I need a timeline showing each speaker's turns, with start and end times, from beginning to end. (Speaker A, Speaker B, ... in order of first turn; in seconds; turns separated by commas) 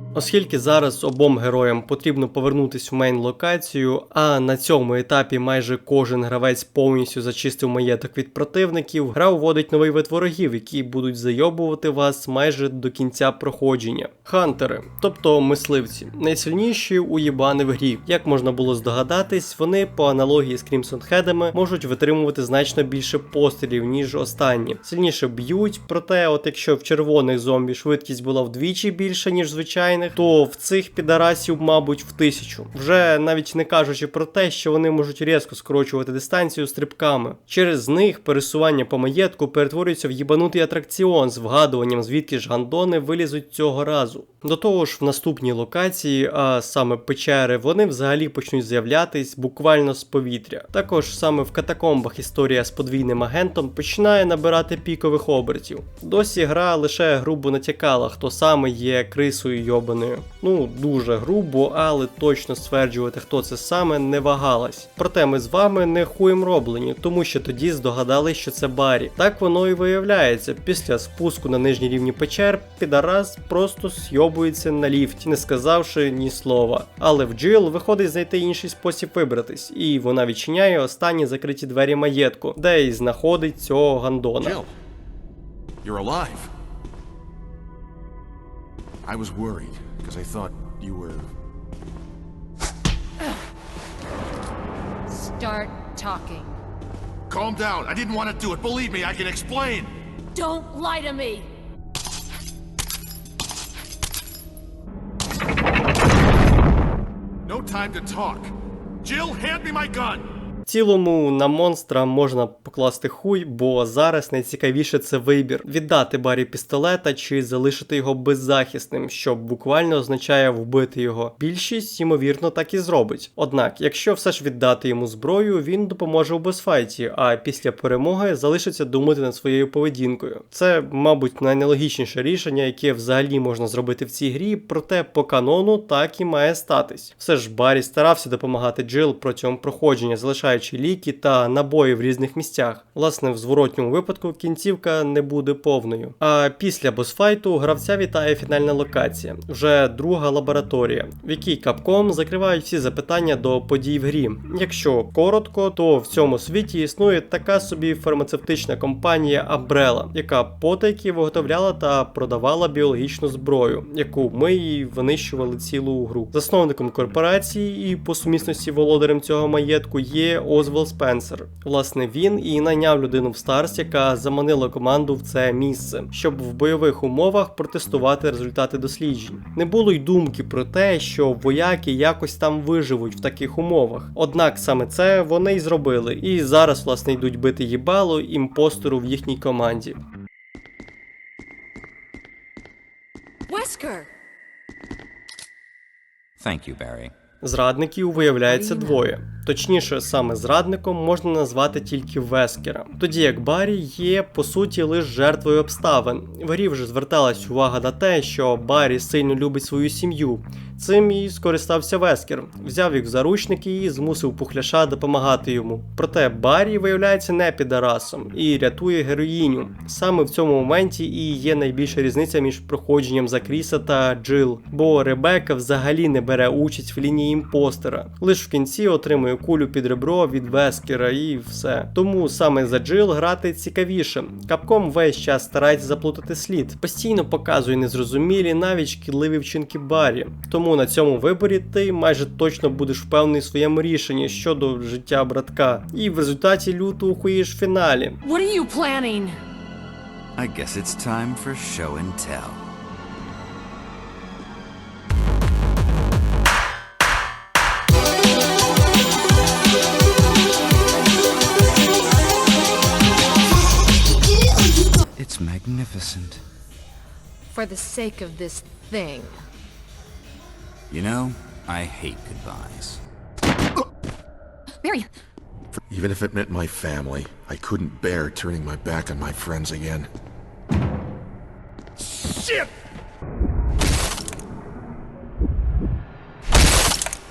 Speaker A: 0.1-84.6, Speaker B: 84.4-84.7, Speaker B: 85.8-86.5, Speaker B: 89.0-91.3, Speaker C: 95.1-96.6, Speaker B: 97.3-99.9, Speaker C: 100.3-101.5, Speaker B: 107.5-110.3, Speaker A: 110.7-190.0, Speaker C: 193.5-194.1, Speaker D: 196.4-197.1, Speaker A: 197.4-248.2, Speaker C: 198.2-199.0, Speaker C: 248.2-249.4, Speaker D: 250.4-252.6, Speaker D: 265.2-266.4, Speaker C: 267.5-269.4, Speaker D: 270.9-273.0, Speaker C: 274.8-275.1, Speaker B: 275.9-280.1